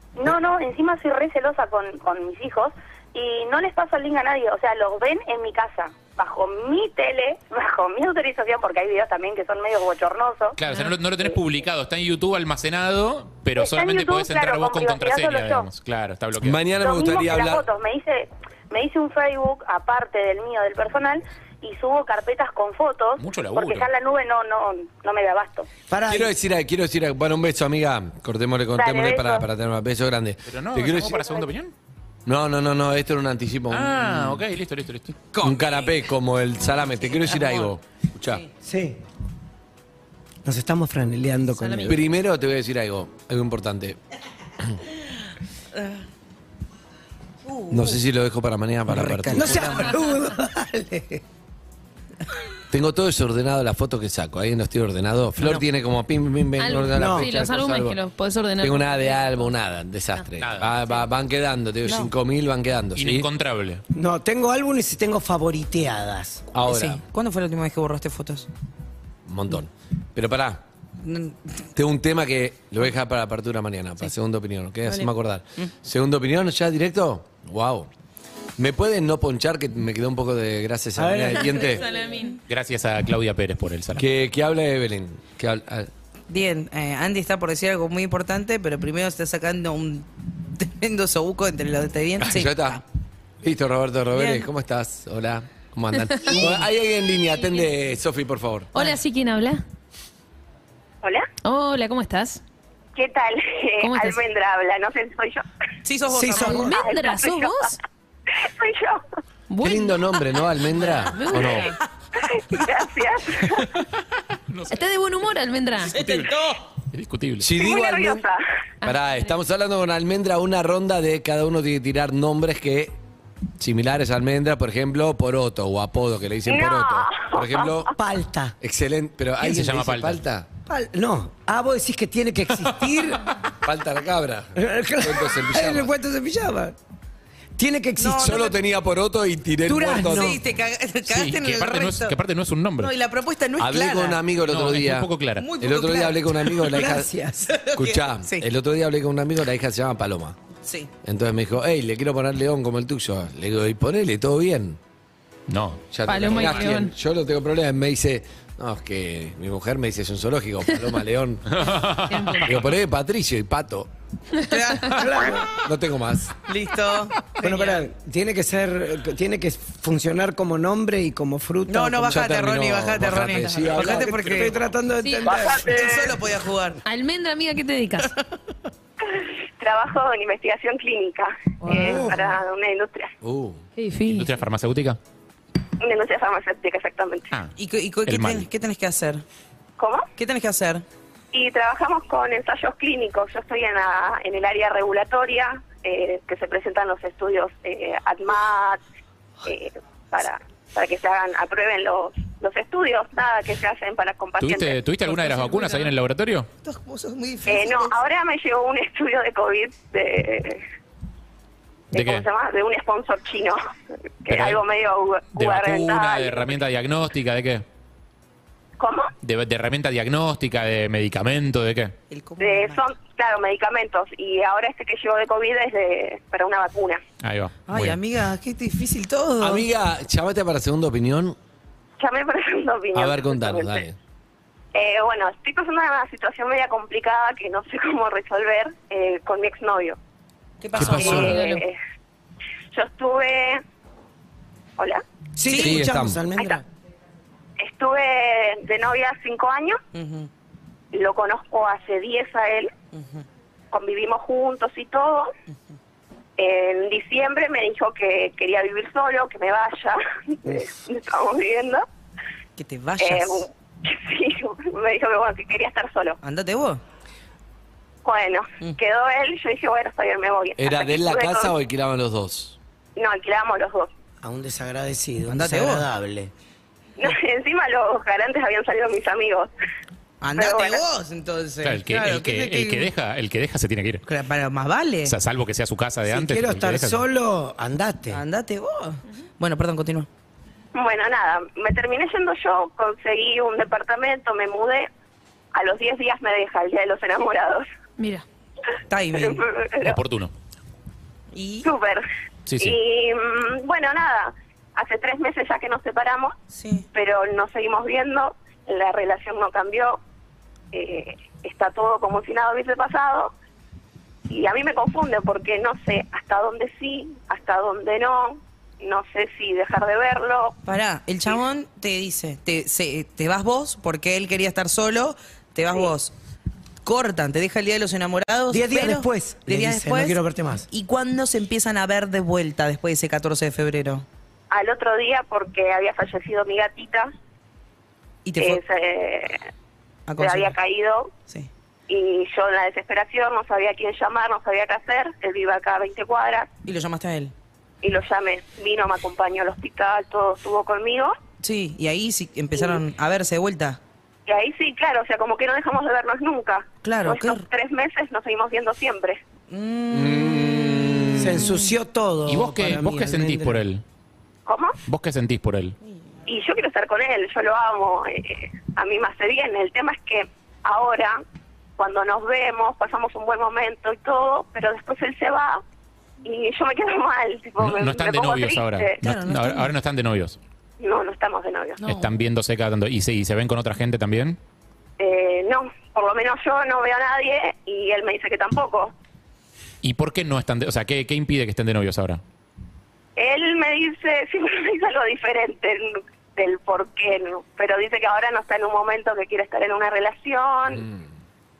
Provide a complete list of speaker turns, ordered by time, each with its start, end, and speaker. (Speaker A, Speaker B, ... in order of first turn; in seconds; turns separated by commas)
Speaker A: 0.2-10.6, Speaker B: 10.6-16.6, Speaker C: 10.7-10.9, Speaker A: 13.6-15.7, Speaker D: 16.4-17.7, Speaker A: 16.8-25.7, Speaker B: 23.2-23.9, Speaker E: 25.9-26.3, Speaker D: 26.1-31.2, Speaker A: 28.8-29.4, Speaker B: 30.5-31.7, Speaker D: 32.3-34.4, Speaker B: 33.7-35.2, Speaker F: 35.4-36.0, Speaker D: 35.4-38.4, Speaker F: 37.1-37.7, Speaker E: 38.6-39.0, Speaker E: 40.5-42.0, Speaker C: 41.6-42.0, Speaker D: 41.8-44.0, Speaker F: 47.5-48.0, Speaker D: 47.7-49.9, Speaker F: 48.9-50.0, Speaker E: 49.3-51.2, Speaker D: 52.7-58.0, Speaker F: 55.4-55.6, Speaker C: 56.6-59.5, Speaker E: 56.9-57.3, Speaker D: 58.6-63.3, Speaker B: 60.4-60.7, Speaker F: 61.9-62.1, Speaker B: 63.0-63.8, Speaker E: 63.9-66.5, Speaker D: 66.5-67.0, Speaker F: 66.6-68.5, Speaker D: 69.3-70.6, Speaker F: 71.0-71.4, Speaker D: 71.8-77.9, Speaker F: 74.9-75.7, Speaker D: 78.6-81.8, Speaker E: 81.0-81.8, Speaker C: 81.5-82.4, Speaker B: 82.5-84.1, Speaker D: 84.0-85.9, Speaker F: 86.3-92.8, Speaker D: 92.2-92.8, Speaker D: 93.4-98.7, Speaker F: 94.1-94.5, Speaker C: 98.7-99.6, Speaker C: 101.4-102.4, Speaker G: 103.0-105.4, Speaker C: 103.8-104.2, Speaker F: 105.8-106.7, Speaker E: 106.1-106.7, Speaker C: 106.4-107.8, Speaker G: 106.6-107.6, Speaker G: 108.3-109.0, Speaker C: 109.5-110.1, Speaker D: 109.6-111.7, Speaker C: 110.7-111.8, Speaker G: 112.3-113.7, Speaker B: 114.5-114.8, Speaker C: 114.7-116.0, Speaker B: 115.9-116.3, Speaker F: 115.9-116.6, Speaker B: 116.9-117.5, Speaker D: 117.4-118.3, Speaker G: 117.5-118.4, Speaker C: 118.8-119.3, Speaker D: 118.8-123.0, Speaker D: 123.6-127.9, Speaker G: 126.5-127.9, Speaker E: 128.0-128.6, Speaker D: 128.6-130.5, Speaker B: 129.4-130.2, Speaker E: 130.7-133.3, Speaker D: 133.6-135.9, Speaker E: 134.6-136.8, Speaker E: 137.6-138.5, Speaker F: 138.0-138.5, Speaker D: 138.2-140.4, Speaker E: 139.7-140.4, Speaker F: 140.0-142.2, Speaker B: 141.1-142.9, Speaker F: 142.8-144.2, Speaker D: 143.6-147.1, Speaker B: 144.4-145.5, Speaker F: 145.4-146.8, Speaker E: 146.7-147.6, Speaker F: 147.5-148.5, Speaker D: 147.7-150.4, Speaker F: 150.6-150.9, Speaker D: 151.0-154.8, Speaker B: 155.5-156.7, Speaker D: 155.9-161.6, Speaker C: 156.1-156.9, Speaker B: 161.5-162.5, Speaker C: 162.1-162.6, Speaker D: 162.4-163.9, Speaker F: 164.5-165.4, Speaker E: 164.9-165.5, Speaker D: 165.6-166.4, Speaker F: 166.5-167.8, Speaker E: 167.4-172.3, Speaker F: 171.7-174.6, Speaker D: 172.1-174.7, Speaker E: 173.8-176.2, Speaker C: 175.0-175.4, Speaker F: 175.4-176.8, Speaker C: 176.8-178.1, Speaker G: 179.0-183.1, Speaker C: 181.6-182.1, Speaker E: 181.8-182.1, Speaker D: 183.2-183.6, Speaker C: 183.8-184.3, Speaker B: 184.1-185.0, Speaker G: 185.8-187.3, Speaker F: 187.6-189.2, Speaker B: 188.1-188.5, Speaker G: 189.8-190.1, Speaker F: 190.2-190.8, Speaker G: 191.3-198.8, Speaker G: 199.4-204.8, Speaker B: 204.4-206.5, Speaker F: 205.1-205.9, Speaker F: 206.6-208.0, Speaker G: 207.5-210.6, Speaker G: 211.9-213.6, Speaker B: 211.9-212.3, Speaker G: 214.2-216.6, Speaker B: 214.3-214.6, Speaker B: 215.3-217.7, Speaker G: 218.8-219.1, Speaker B: 219.2-221.9, Speaker F: 222.1-222.9, Speaker G: 222.4-227.0, Speaker B: 227.2-228.0, Speaker F: 227.7-229.7, Speaker D: 229.4-231.4, Speaker G: 232.0-233.8, Speaker D: 232.9-234.0, Speaker G: 234.7-240.0, Speaker F: 240.6-241.5, Speaker D: 240.8-241.4, Speaker G: 240.9-241.8, Speaker C: 241.1-241.6, Speaker G: 242.7-243.6, Speaker E: 245.4-246.6, Speaker F: 245.4-245.9, Speaker D: 245.6-246.2, Speaker G: 247.6-249.8, Speaker F: 249.9-250.3, Speaker G: 250.9-252.7, Speaker F: 252.9-253.2, Speaker G: 253.7-255.3, Speaker G: 256.4-261.9, Speaker F: 262.6-263.5, Speaker G: 263.0-266.2, Speaker F: 266.2-266.8, Speaker G: 268.0-271.5, Speaker D: 270.6-272.6, Speaker G: 273.0-273.9, Speaker E: 274.2-276.3, Speaker F: 275.3-275.9, Speaker G: 277.0-279.5, Speaker F: 280.2-282.9, Speaker G: 280.4-280.8, Speaker B: 281.6-284.1, Speaker F: 284.1-285.1, Speaker B: 285.1-287.0, Speaker E: 286.1-288.2, Speaker F: 288.1-290.1, Speaker G: 290.7-294.9, Speaker G: 295.5-297.7, Speaker C: 298.0-298.2, Speaker F: 298.9-299.5, Speaker G: 299.2-300.0, Speaker B: 299.8-300.3, Speaker F: 301.3-301.7, Speaker G: 301.6-302.1, Speaker B: 302.5-302.8, Speaker G: 302.6-306.4, Speaker F: 306.5-306.9, Speaker G: 306.9-310.0, Speaker G: 310.7-313.3, Speaker G: 314.3-320.6, Speaker F: 320.7-326.1, Speaker F: 326.9-330.2, Speaker E: 328.5-330.7, Speaker F: 330.7-334.1, Speaker G: 334.5-337.1, Speaker F: 338.2-338.6, Speaker G: 338.4-339.4, Speaker F: 340.1-340.6, Speaker G: 340.2-341.1, Speaker G: 341.9-346.5, Speaker F: 346.6-347.3, Speaker G: 347.8-351.2, Speaker F: 351.4-353.8, Speaker G: 354.3-359.2, Speaker F: 356.8-357.5, Speaker F: 359.5-361.7, Speaker D: 359.9-361.4, Speaker E: 361.2-363.6, Speaker B: 362.3-363.8, Speaker G: 364.5-364.8, Speaker B: 364.9-365.8, Speaker G: 366.3-371.2, Speaker G: 371.8-375.6, Speaker G: 376.2-379.0, Speaker B: 377.6-380.4, Speaker F: 379.0-379.7, Speaker G: 380.8-381.8, Speaker F: 381.8-382.1, Speaker B: 381.8-384.4, Speaker G: 385.0-388.9, Speaker B: 389.8-392.2, Speaker G: 393.2-400.9